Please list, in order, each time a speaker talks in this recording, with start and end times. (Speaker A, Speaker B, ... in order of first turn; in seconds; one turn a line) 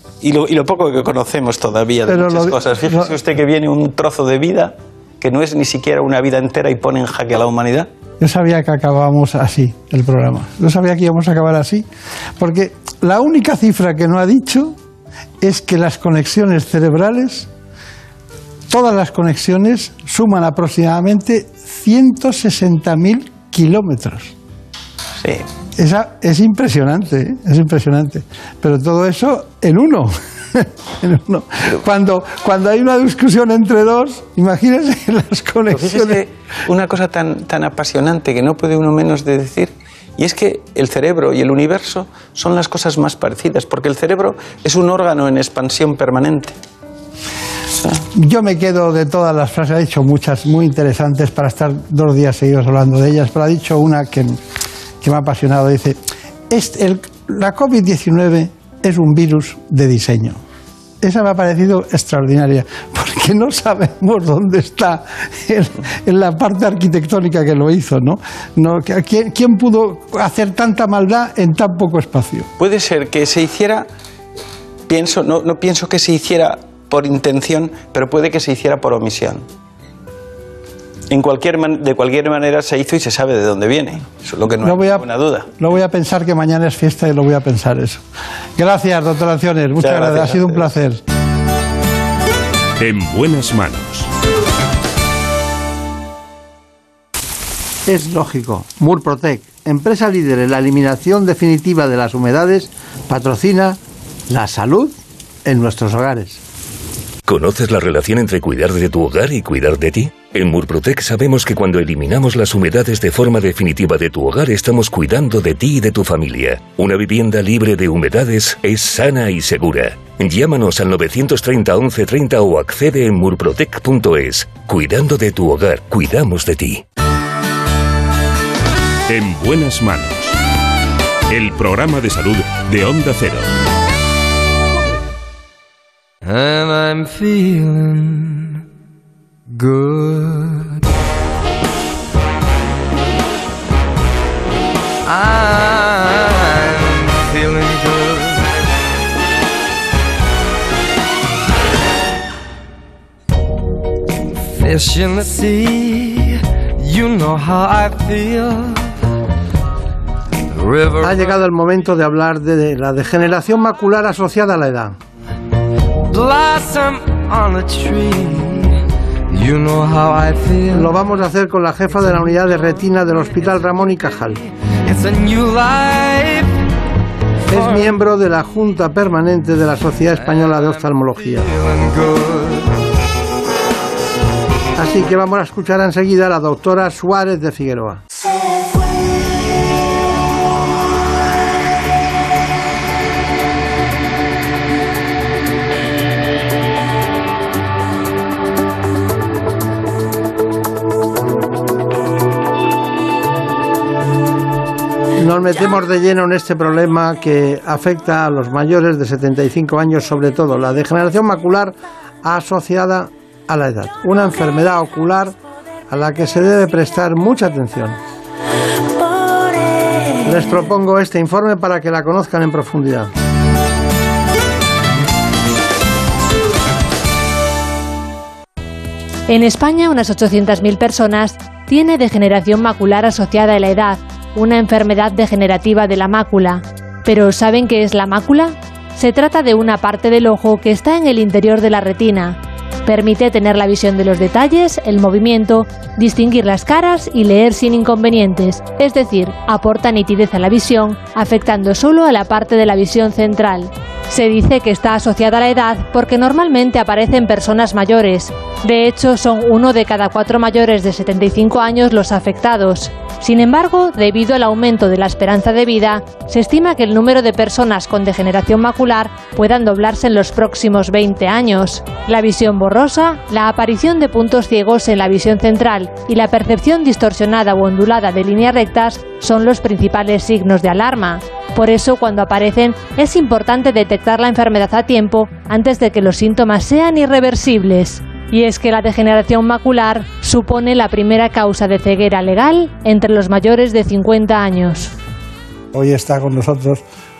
Speaker A: 0.2-7.9
Speaker B: 2.1-3.1
Speaker B: 8.2-11.8
Speaker B: 12.4-14.8
Speaker B: 15.4-17.5
Speaker B: 18.7-24.3
Speaker B: 25.8-36.2
Speaker A: 35.7-46.5
Speaker B: 48.1-54.4
Speaker B: 55.0-56.0
Speaker B: 56.5-60.4
Speaker B: 61.0-72.5
Speaker A: 72.6-73.9
Speaker A: 74.9-79.4
Speaker A: 81.1-85.5
Speaker B: 84.6-85.1
Speaker B: 85.6-88.0
Speaker B: 88.6-91.0
Speaker A: 89.8-90.7
Speaker C: 92.8-94.1
Speaker B: 97.8-106.4
Speaker D: 107.3-126.8
Speaker C: 129.1-130.3
Speaker C: 131.3-133.5
Speaker E: 136.2-138.6
Speaker E: 139.5-140.8
Speaker E: 145.0-148.5
Speaker E: 154.3-158.9
Speaker E: 160.5-161.4
Speaker B: 161.0-165.0
Speaker E: 166.1-171.2
Speaker B: 170.7-174.4
Speaker E: 172.0-172.8
Speaker E: 174.8-176.7
Speaker B: 177.5-181.5
Speaker E: 177.5-178.0
Speaker E: 180.1-182.8
Speaker B: 184.8-188.0
Speaker B: 205.2-215.3
Speaker B: 215.9-218.0
Speaker B: 220.2-223.1
Speaker F: 229.3-294.9
Speaker B: 295.7-296.8